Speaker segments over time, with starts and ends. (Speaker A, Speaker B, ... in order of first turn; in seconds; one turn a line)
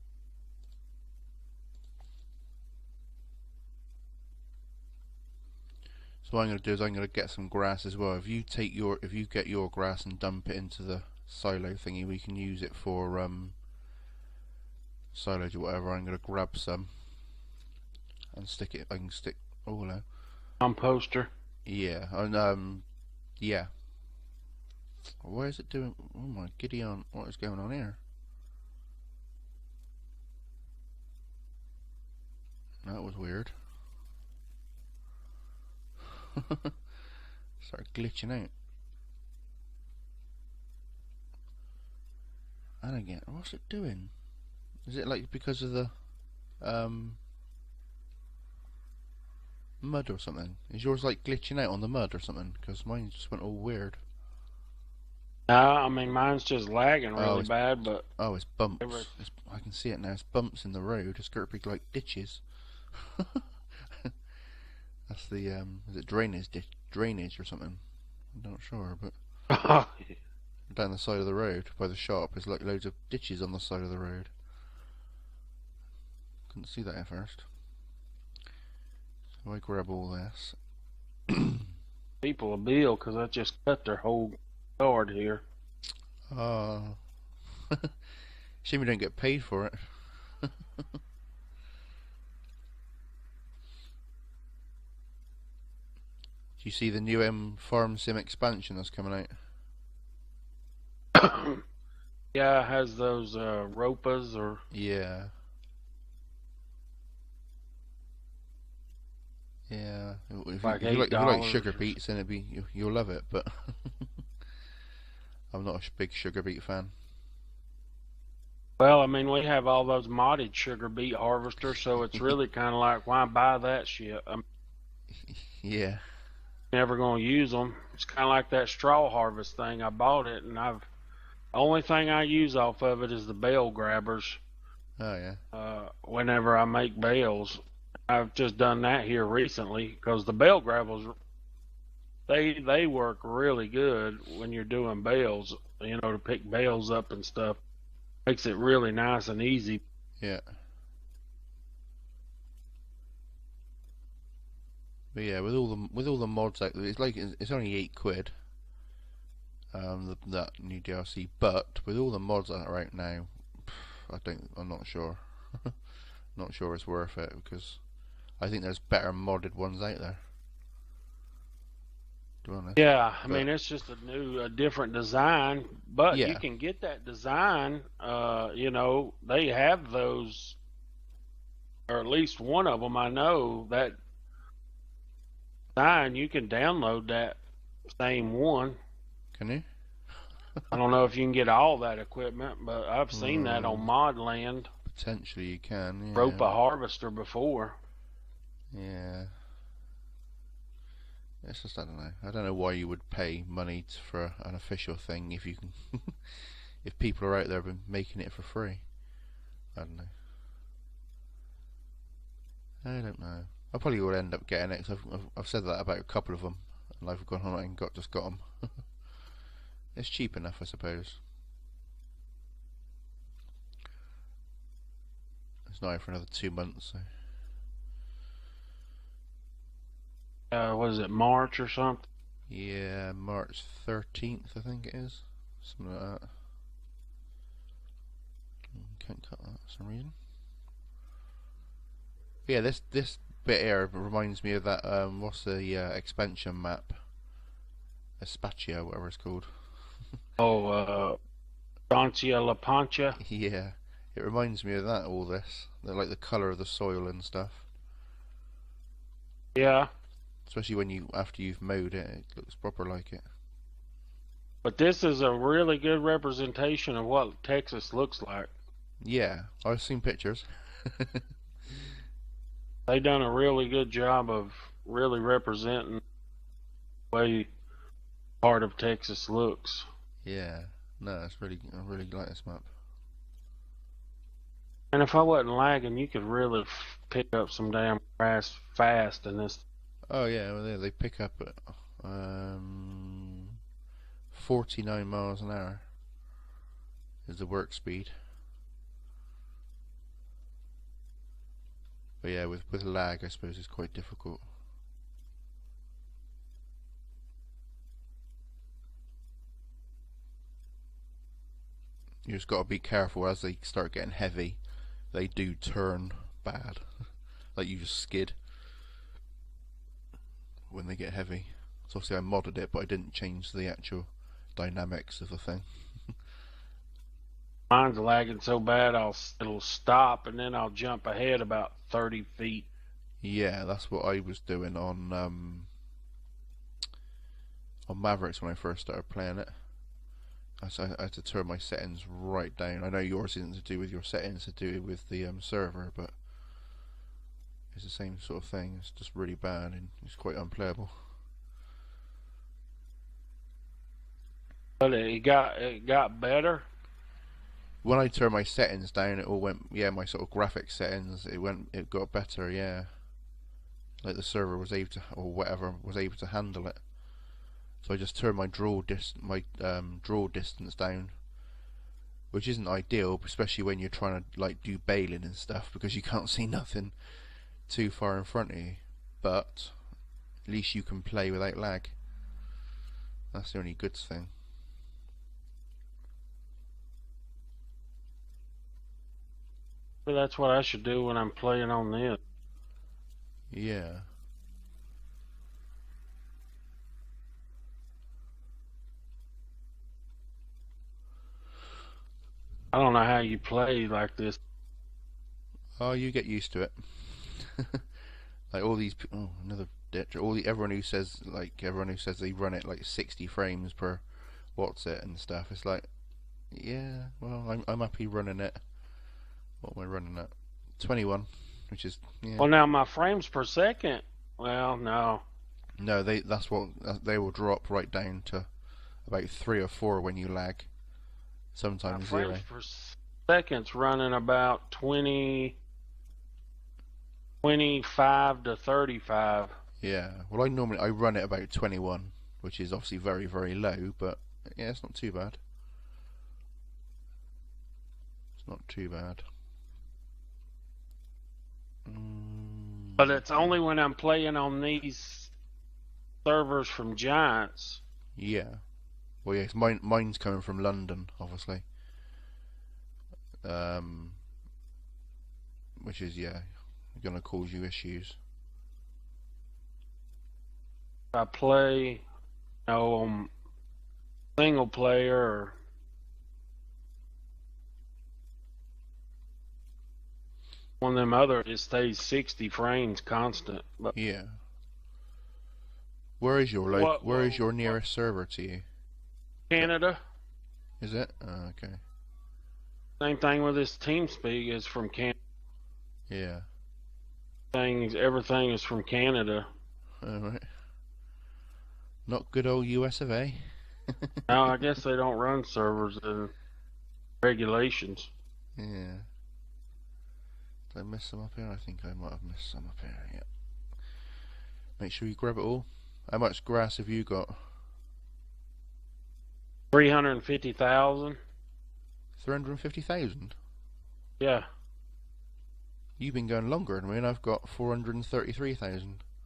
Speaker A: 6.2-13.6
Speaker A: 15.1-16.9
Speaker A: 18.3-20.0
Speaker B: 20.6-21.3
Speaker A: 21.6-22.9
Speaker A: 23.4-23.7
Speaker A: 25.2-28.0
Speaker A: 32.8-33.5
Speaker A: 36.0-36.8
Speaker A: 37.6-38.5
Speaker A: 42.8-44.1
Speaker A: 44.8-45.9
Speaker A: 46.6-47.2
Speaker A: 49.8-54.0
Speaker B: 55.5-58.0
Speaker A: 57.1-57.5
Speaker A: 58.2-64.2
Speaker B: 58.8-59.1
Speaker A: 65.1-67.8
Speaker A: 68.3-69.1
Speaker B: 69.5-70.2
Speaker A: 70.7-74.3
Speaker A: 76.5-77.5
Speaker A: 79.4-80.6
Speaker A: 81.3-81.7
Speaker B: 82.2-85.4
Speaker A: 86.3-87.0
Speaker A: 87.7-88.0
Speaker A: 88.6-90.9
Speaker A: 96.6-99.3
Speaker B: 101.1-101.6
Speaker B: 102.3-104.6
Speaker A: 104.7-105.3
Speaker A: 109.7-114.2
Speaker B: 110.6-111.9
Speaker A: 115.5-116.9
Speaker B: 118.8-124.4
Speaker A: 125.1-126.0
Speaker B: 126.7-130.9
Speaker B: 131.5-134.4
Speaker A: 135.0-135.4
Speaker B: 135.5-141.1
Speaker B: 142.3-147.6
Speaker B: 148.3-149.8
Speaker A: 155.1-158.3
Speaker A: 159.7-165.8
Speaker A: 166.3-167.8
Speaker A: 168.4-170.2
Speaker A: 172.4-173.5
Speaker B: 172.8-180.6
Speaker A: 176.1-176.4
Speaker B: 181.9-184.0
Speaker B: 185.8-187.4
Speaker B: 188.0-188.8
Speaker A: 189.3-189.7
Speaker B: 190.7-194.7
Speaker A: 193.1-193.9
Speaker A: 194.8-196.6
Speaker B: 196.1-197.7
Speaker A: 198.7-199.3
Speaker A: 201.4-208.9
Speaker A: 209.7-210.1
Speaker A: 212.8-218.9
Speaker A: 219.9-221.2
Speaker A: 225.7-227.1
Speaker B: 230.5-232.1
Speaker A: 232.5-236.3
Speaker A: 238.7-240.1
Speaker A: 242.4-247.0
Speaker A: 248.2-249.6
Speaker B: 250.4-251.2
Speaker B: 251.9-253.2
Speaker A: 253.2-257.6
Speaker B: 259.5-259.9
Speaker A: 260.4-263.2
Speaker B: 264.6-268.5
Speaker A: 269.0-271.3
Speaker B: 272.9-276.0
Speaker B: 277.1-277.5
Speaker B: 278.4-279.9
Speaker A: 280.2-282.7
Speaker B: 284.9-289.6
Speaker A: 290.1-293.6
Speaker A: 294.3-295.9
Speaker A: 297.2-298.1
Speaker A: 302.2-304.5
Speaker A: 312.2-314.6
Speaker A: 315.1-318.4
Speaker A: 320.7-326.2
Speaker B: 327.7-332.6
Speaker A: 333.2-335.7
Speaker A: 337.9-339.5
Speaker A: 340.6-346.1
Speaker A: 347.7-351.0
Speaker B: 354.8-356.6
Speaker A: 357.8-362.9
Speaker A: 364.0-366.8
Speaker A: 367.8-371.1
Speaker A: 372.3-379.8
Speaker A: 380.4-381.9
Speaker A: 383.3-384.3
Speaker B: 390.1-392.2
Speaker A: 393.5-394.1
Speaker B: 402.7-404.4
Speaker A: 405.8-407.9
Speaker A: 408.5-415.9
Speaker A: 416.5-418.6
Speaker A: 419.6-422.5
Speaker B: 422.4-425.2
Speaker A: 425.8-428.5
Speaker A: 429.0-430.7
Speaker A: 431.5-432.4
Speaker B: 431.9-435.6
Speaker B: 437.4-439.5
Speaker A: 439.8-445.4
Speaker A: 448.4-449.2
Speaker A: 451.8-453.6
Speaker B: 453.0-455.3
Speaker B: 456.2-457.8
Speaker A: 458.1-458.6
Speaker A: 459.2-461.6
Speaker A: 463.4-464.2
Speaker A: 465.8-468.2
Speaker B: 471.1-472.0
Speaker B: 472.7-473.3
Speaker B: 474.4-475.6
Speaker B: 480.8-483.9
Speaker A: 483.9-484.4
Speaker A: 486.2-488.6
Speaker B: 486.7-487.8
Speaker B: 489.5-490.0
Speaker A: 490.8-491.8
Speaker B: 493.0-495.2
Speaker A: 496.1-496.5
Speaker B: 497.5-499.5
Speaker A: 500.0-500.5
Speaker A: 502.1-504.6
Speaker B: 504.3-506.3
Speaker B: 507.2-508.1
Speaker A: 508.6-509.1
Speaker A: 510.7-513.3
Speaker A: 514.8-517.5
Speaker B: 519.7-521.2
Speaker A: 522.2-523.4
Speaker B: 524.2-524.5
Speaker A: 526.0-529.0